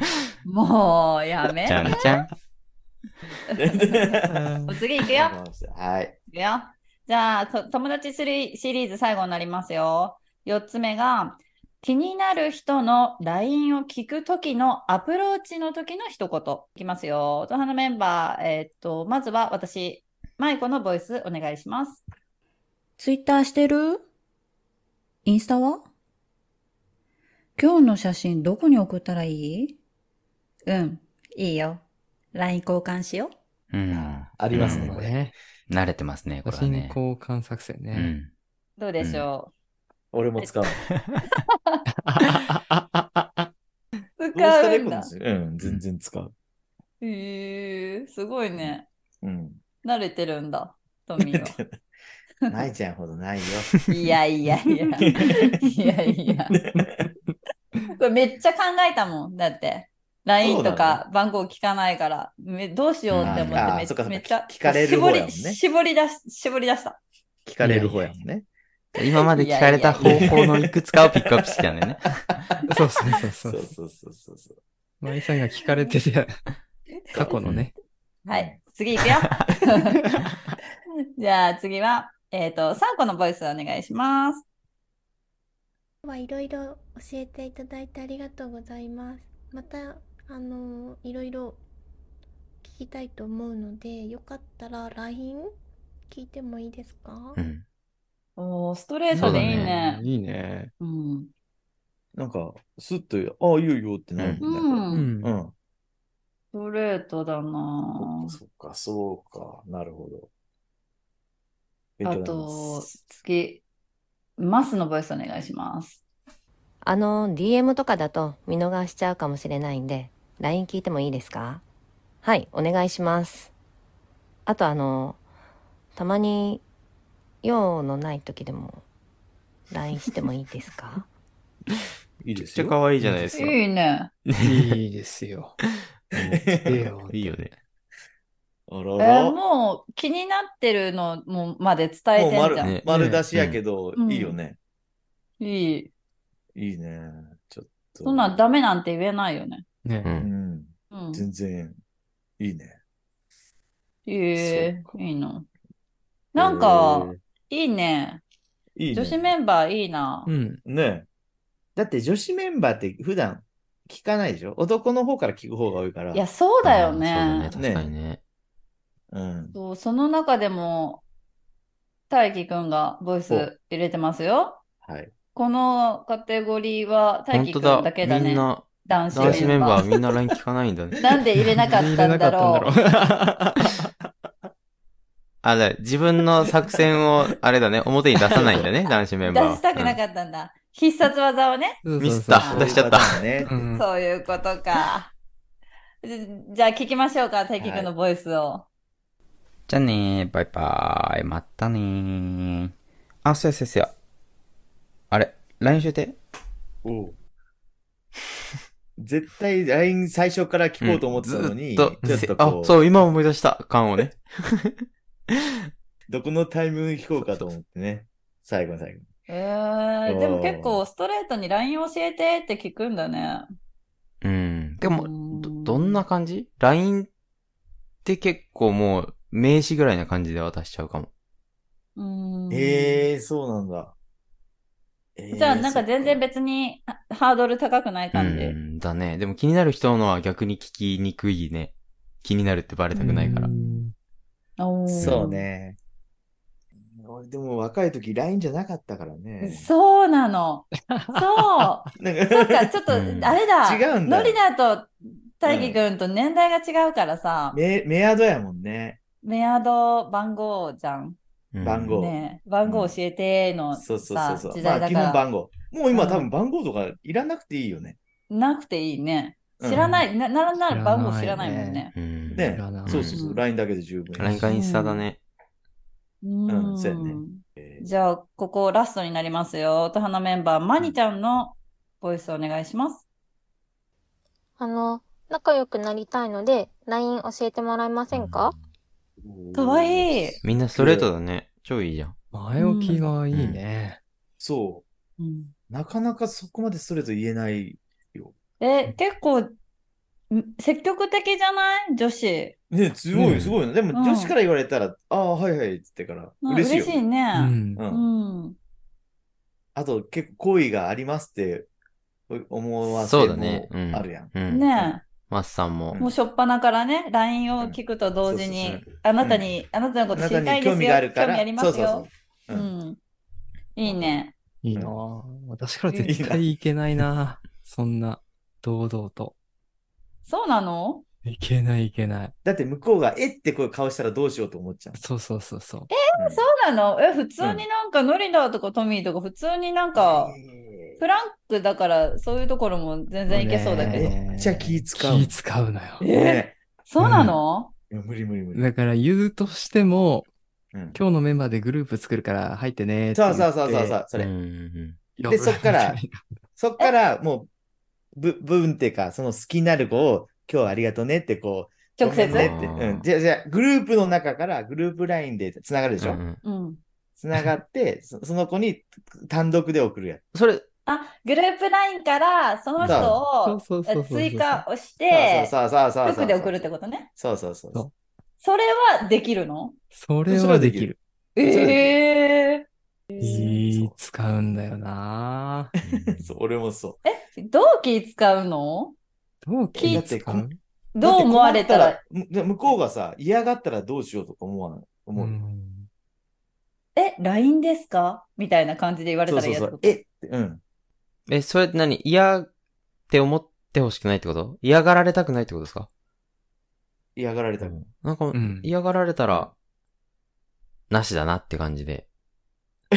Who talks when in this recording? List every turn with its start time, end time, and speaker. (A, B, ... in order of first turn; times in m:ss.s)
0:00.4-0:01.9 A
0:01.6-0:02.3 B
0:03.6-0:04.3 C
0:03.7-0:05.3 A
0:04.3-0:04.8 D
0:05.0-0:06.1 C
0:06.3-0:22.0 A
0:23.0-0:24.0 E
0:25.2-0:25.8 E
0:27.6-0:29.8 E
0:30.7-0:31.0 A
0:31.4-0:31.8 E
0:32.4-0:33.3 E
0:33.7-0:35.0 B
0:33.9-0:35.1 C
0:34.5-0:35.3 D
0:35.7-0:37.0 B
0:36.4-0:38.1 D
0:37.9-0:38.3 B
0:38.8-0:39.5 A
0:39.0-0:39.2 B
0:40.1-0:40.8 C
0:42.1-0:43.2 D
0:44.2-0:45.1 A
0:44.3-0:46.3 C
0:47.0-0:48.8 A
0:48.6-0:49.6 C
0:49.8-0:51.6 A
0:51.2-0:51.6 C
0:52.5-0:53.8 C
0:53.9-0:56.6 A
0:55.2-0:55.5 C
0:57.9-1:07.0 A
1:00.4-1:01.0 C
1:03.1-1:03.6 B
1:03.2-1:05.6 C
1:07.4-1:08.4 C
1:07.6-1:08.1 D
1:09.0-1:12.0 B
1:09.3-1:10.2 A
1:10.0-1:11.3 C
1:12.7-1:13.7 D
1:13.4-1:14.6 C
1:15.0-1:16.4 D
1:17.1-1:17.4 A
1:17.1-1:17.7 D
1:17.4-1:17.7 B
1:18.2-1:20.0 A
1:18.3-1:18.6 C
1:21.2-1:24.4 A
1:26.0-1:31.6 F
1:32.6-1:35.5 F
1:36.1-1:37.4 F
1:37.4-1:37.6 B
1:38.4-1:40.0 A
1:39.1-1:40.7 D
1:39.2-1:39.7 B
1:40.8-1:41.3 A
1:42.1-1:45.5 C
1:44.4-1:45.1 A
1:44.9-1:45.3 D
1:46.5-1:48.3 A
1:48.0-1:50.3 C
1:52.0-1:52.9 C
1:52.0-1:53.6 A
1:54.4-1:56.0 A
1:56.8-2:01.6 G
2:02.2-2:03.5 G
2:04.4-2:05.2 G
2:06.0-2:06.6 G
2:07.4-2:08.8 G
2:09.7-2:11.1 G
2:12.2-2:13.5 B
2:12.3-2:12.8 C
2:13.0-2:13.5 D
2:13.3-2:14.1 A
2:14.3-2:14.8 B
2:14.4-2:15.6 D
2:16.3-2:16.9 C
2:16.5-2:17.5 D
2:17.1-2:17.5 B
2:18.7-2:19.4 C
2:19.0-2:22.7 A
2:22.1-2:24.6 C
2:22.6-2:23.6 B
2:22.9-2:23.2 D
2:24.0-2:24.4 A
2:25.4-2:25.9 A
2:26.5-2:28.4 C
2:28.0-2:29.6 A
2:29.8-2:30.1 D
2:30.0-2:30.3 B
2:30.2-2:31.8 C
2:30.9-2:31.2 A
2:32.4-2:32.8 C
2:34.0-2:35.5 A
2:34.4-2:35.0 C
2:36.3-2:38.2 A
2:36.3-2:37.2 C
2:38.8-2:39.3 C
2:38.9-2:40.3 A
2:40.2-2:40.6 D
2:40.6-2:41.1 C
2:41.8-2:46.2 C
2:46.1-2:47.5 A
2:46.6-2:48.2 B
2:47.5-2:47.9 C
2:49.1-2:49.5 C
2:49.5-2:51.0 A
2:52.1-2:54.6 A
2:54.8-2:55.1 C
2:55.3-2:59.8 A
2:57.3-3:01.0 B
2:59.2-2:59.6 C
3:01.0-3:02.7 A
3:01.6-3:03.9 D
3:05.4-3:10.0 B
3:09.3-3:11.8 A
3:11.8-3:12.8 D
3:12.0-3:13.2 B
3:12.4-3:12.6 A
3:12.5-3:13.5 C
3:13.4-3:13.8 D
3:13.7-3:15.1 A
3:16.0-3:18.7 A
3:17.6-3:17.9 C
3:19.7-3:22.7 B
3:23.2-3:23.9 B
3:25.1-3:26.2 B
3:26.8-3:27.2 C
3:29.0-3:32.8 C
3:30.8-3:34.7 B
3:32.0-3:32.3 D
3:36.1-3:39.0 C
3:39.3-3:43.5 A
3:40.0-3:40.8 C
3:44.2-3:47.1 B
3:44.8-3:46.0 A
3:48.0-3:51.1 B
3:52.0-3:53.0 A
3:52.5-3:53.9 C
3:55.2-3:56.2 C
3:55.3-3:58.6 A
3:58.1-4:03.5 B
4:03.0-4:03.9 D
4:04.6-4:05.4 A
4:04.9-4:05.8 C
4:06.8-4:09.7 C
4:09.4-4:17.6 A
4:10.9-4:11.7 D
4:12.0-4:12.7 C
4:12.9-4:13.4 B
4:13.6-4:14.4 C
4:15.4-4:15.8 C
4:17.5-4:19.0 C
4:19.2-4:21.2 A
4:21.5-4:21.9 B
4:21.6-4:23.0 C
4:21.9-4:25.2 A
4:23.7-4:28.0 C
4:25.9-4:26.3 A
4:28.3-4:31.9 A
4:29.6-4:29.9 C
4:29.7-4:33.0 D
4:31.9-4:33.2 B
4:32.3-4:34.5 C
4:33.1-4:33.4 A
4:34.2-4:35.2 B
4:34.5-4:35.0 A
4:36.2-4:43.0 A
4:36.5-4:37.8 C
4:44.6-4:48.5 H
4:49.2-4:51.1 C
4:49.5-4:50.4 A
4:50.4-4:52.1 B
4:52.3-4:54.0 D
4:52.6-4:53.1 A
4:53.3-4:53.6 B
4:54.4-4:54.8 C
4:55.2-4:55.5 A
4:55.7-4:58.3 C
4:58.6-4:59.5 A
5:00.3-5:02.6 A
5:02.7-5:07.0 C
5:03.1-5:03.5 D
5:03.9-5:04.3 A
5:06.4-5:08.6 A
5:07.3-5:07.8 D
5:07.8-5:08.0 C
5:09.7-5:11.7 C
5:12.3-5:14.9 C
5:12.9-5:14.7 B
5:14.5-5:15.0 A
5:15.3-5:16.0 B
5:16.0-5:23.0 A
5:17.6-5:19.5 C
5:20.1-5:22.7 C
5:23.8-5:24.3 A
5:23.8-5:24.2 C
5:24.6-5:29.3 D
5:25.9-5:26.2 A
5:26.0-5:26.4 C
5:30.2-5:31.0 A
5:31.2-5:32.3 D
5:32.4-5:35.0 C
5:34.9-5:35.9 D
5:35.9-5:40.3 A
5:36.1-5:36.4 C
5:37.4-5:37.6 C
5:39.9-5:41.0 C
5:41.0-5:44.1 A
5:43.3-5:46.0 D
5:43.8-5:45.4 C
5:46.0-5:47.7 A
5:46.1-5:46.6 C
5:47.0-5:47.4 D
5:47.9-5:48.7 C
5:48.5-5:50.3 D
5:50.9-5:54.0 D
5:53.1-5:54.3 C
5:54.2-5:55.0 B
5:55.2-5:56.2 D
5:55.2-5:56.0 C
5:56.6-5:57.5 C
5:58.1-6:06.2 C
6:02.0-6:02.5 A
6:02.2-6:03.0 B
6:06.0-6:06.4 B
6:06.4-6:06.8 A
6:07.2-6:10.2 C
6:10.3-6:10.6 B
6:10.8-6:15.5 A
6:12.8-6:13.1 B
6:12.8-6:13.2 C
6:13.3-6:14.6 D
6:15.1-6:16.6 C
6:16.0-6:17.1 A
6:17.2-6:17.8 C
6:18.4-6:19.7 A
6:19.9-6:21.0 D
6:20.2-6:20.9 C
6:21.4-6:23.6 A
6:21.4-6:22.0 C
6:23.2-6:25.7 D
6:23.2-6:24.0 C
6:25.8-6:26.3 B
6:25.9-6:27.0 C
6:27.0-6:28.9 A
6:29.4-6:30.6 D
6:29.7-6:30.5 C
6:29.8-6:30.1 A
6:30.9-6:32.0 A
6:31.0-6:35.4 C
6:35.2-6:35.9 D
6:36.9-6:40.0 A
6:39.3-6:40.6 C
6:41.3-6:42.5 B
6:43.1-6:45.9 B
6:47.2-6:47.8 C
6:47.6-6:49.5 B
6:48.3-6:48.7 D
6:50.9-6:52.0 B